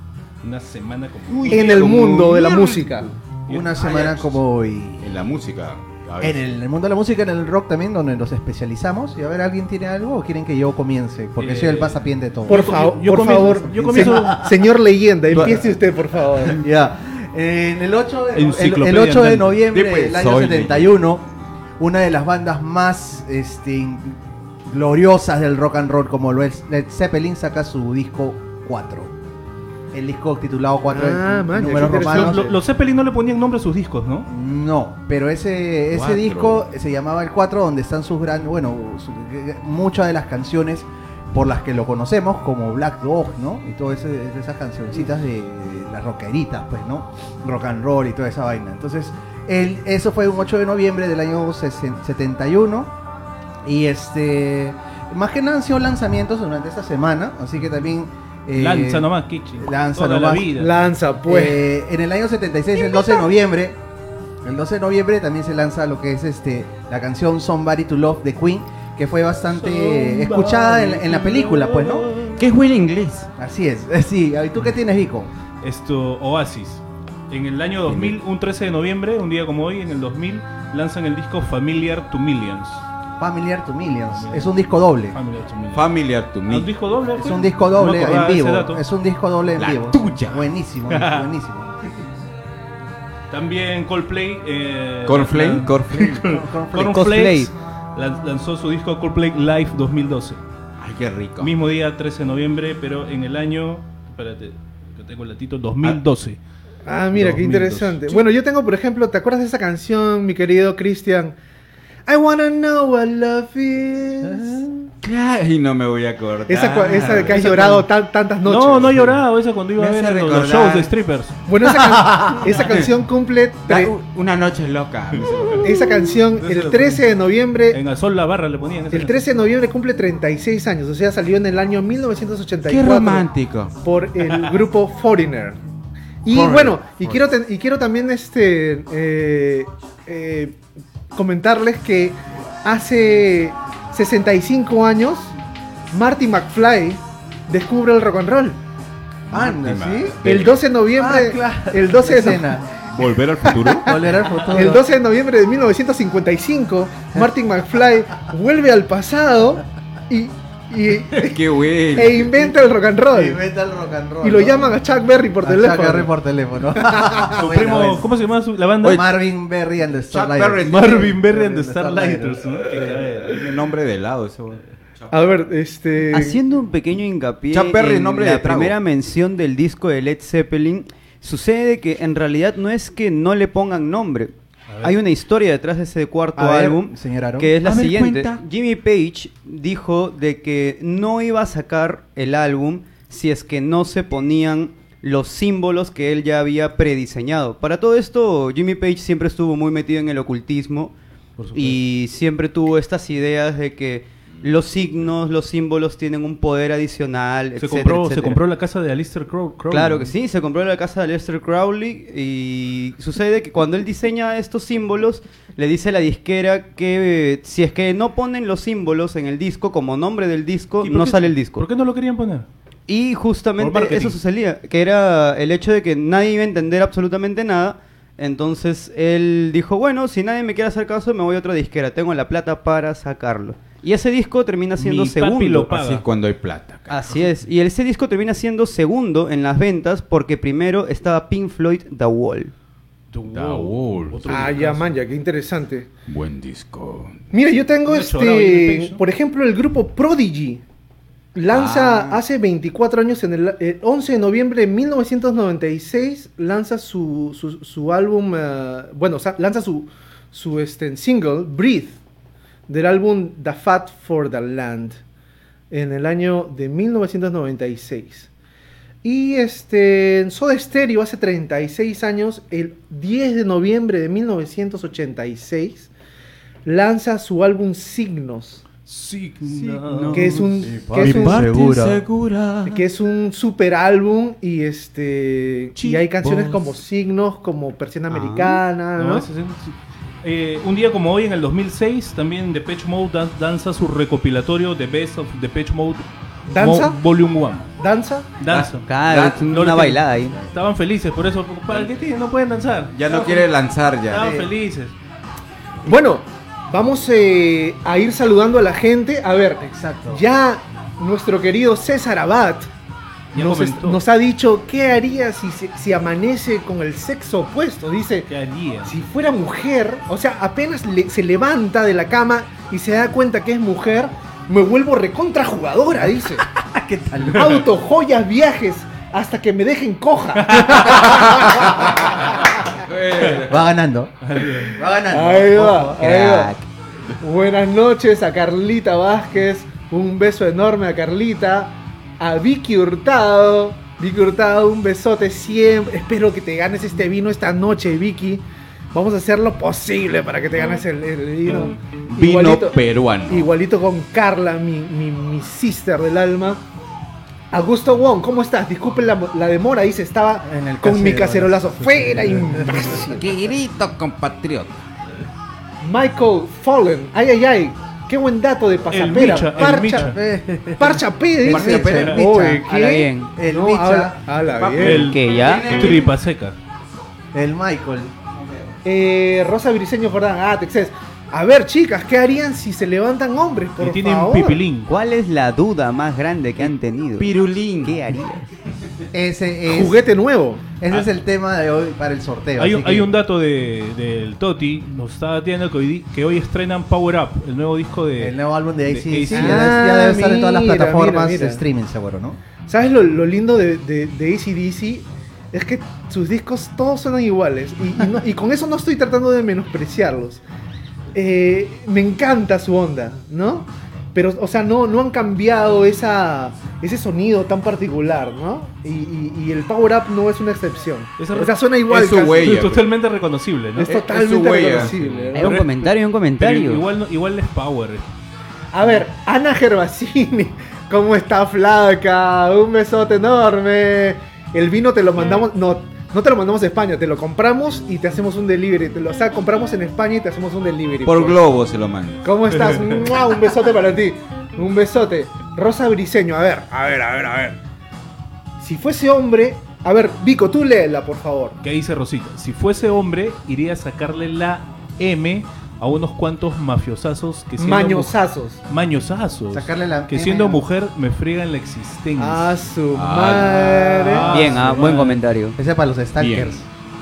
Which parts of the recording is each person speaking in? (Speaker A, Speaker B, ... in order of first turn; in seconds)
Speaker A: 0.4-1.8, 3.5-4.3, 11.4-14.4, 18.3-19.6, 31.8-34.3, 58.5-60.7, 69.5-72.2, 75.6-82.8, 84.1-85.9, 86.5-88.8, 90.9-91.3, 93.3-100.4, 101.4-106.4, 107.1-108.3, 117.2-117.9, 118.4-121.4, 125.3-127.1, 127.7-129.2, 167.3-169.1, 170.6-173.4, 184.7-185.0, 201.4-201.8, 207.6-210.1, 220.8-222.5, 223.6-224.2, 234.8-236.0, 243.1-245.0, 247.9-249.0, 278.9-280.4, 289.0-297.7, 298.4-303.5, 304.1-304.9, 313.3-314.0, 318.3-318.9, 330.4-331.1, 334.2-334.8, 362.2-362.6, 368.9-370.2, 371.9-372.2, 374.8-376.6, 383.8-384.9, 392.6-399.7, 421.2-421.5, 422.4-423.9, 425.4-428.1, 442.5-443.1, 451.6-458.1, 458.7-462.5, 463.8-465.2
Speaker B: 1.3-4.3, 5.0-6.4, 15.3-15.6, 19.7-21.0, 35.9-36.7, 72.4-73.3, 77.9-78.2, 85.7-86.7, 89.6-90.5, 95.1-96.2, 100.8-101.5, 115.0-117.6, 119.8-120.9, 122.5-122.9, 123.7-125.6, 132.7-133.8, 149.3-150.6, 152.9-154.1, 161.1-162.3, 170.1-171.2, 172.9-175.2, 177.5-178.8, 187.6-188.4, 204.3-205.1, 235.7-237.3, 243.3-244.5, 246.1-247.3, 251.5-252.2, 279.9-282.9, 285.8-286.6, 298.5-299.4, 302.9-304.3, 332.0-333.7, 352.1-353.5, 363.1-364.8, 371.5-372.1, 375.3-376.1, 386.6-388.0, 421.9-422.9, 423.9-425.5, 441.1-442.4, 462.9-464.4, 466.2-466.6
Speaker C: 1.5-3.1, 12.5-16.6, 30.9-32.5, 60.6-61.6, 106.8-111.4, 112.1-114.7, 116.5-119.2, 121.5-123.9, 125.6-127.8, 128.9-133.3, 133.8-135.6, 136.2-140.6, 141.2-145.3, 145.9-148.6, 150.2-152.6, 153.5-161.4, 161.9-163.4, 164.2-166.1, 166.8-167.5, 175.1-176.4, 244.3-245.9, 247.3-250.6, 251.3-262.0, 262.7-265.0, 265.7-268.3, 269.0-275.9, 276.6-278.7, 280.1-281.5, 282.7-289.3, 296.5-297.0, 297.8-298.3, 305.9-312.7, 313.3-318.3, 318.9-326.5, 327.3-332.6, 335.1-336.5, 337.2-356.6, 357.5-363.3, 365.8-370.1, 370.8-375.1, 378.9-384.6, 389.7-390.7, 399.3-401.6, 402.7-410.4, 411.1-422.6, 423.8-425.6, 428.7-441.4, 442.2-447.6, 448.6-451.6, 457.6-458.6, 462.2-464.3
Speaker D: 3.5-5.1, 6.2-12.7, 13.8-14.6, 15.3-15.7, 16.4-21.3, 21.8-29.1, 29.9-32.5, 34.3-52.9, 53.6-60.6, 61.3-63.8, 64.4-72.1, 73.4-75.3, 83.2-85.2, 87.1-91.8, 96.2-97.2, 114.2-114.9, 121.6-122.4, 136.3-137.1, 149.3-150.2, 150.9-152.9, 153.6-154.9, 163.1-164.8, 165.4-168.0, 168.8-172.7, 186.4-187.5, 280.6-282.0, 304.2-304.5, 309.6-310.2, 326.5-327.6, 331.1-332.0, 333.5-336.2, 360.4-361.7, 369.7-374.3, 377.3-378.1, 389.1-390.0, 390.8-393.1, 398.2-402.4, 459.5-460.6, 465.6-466.7
Speaker E: 96.8-97.5, 176.1-200.9, 201.5-208.4, 209.7-221.7, 222.9-235.7, 236.9-242.5, 288.2-288.6, 298.9-300.4, 336.0-336.6, 372.6-373.3, 374.8-375.9, 384.9-387.3, 387.8-388.5, 425.3-426.9, 464.3-465.6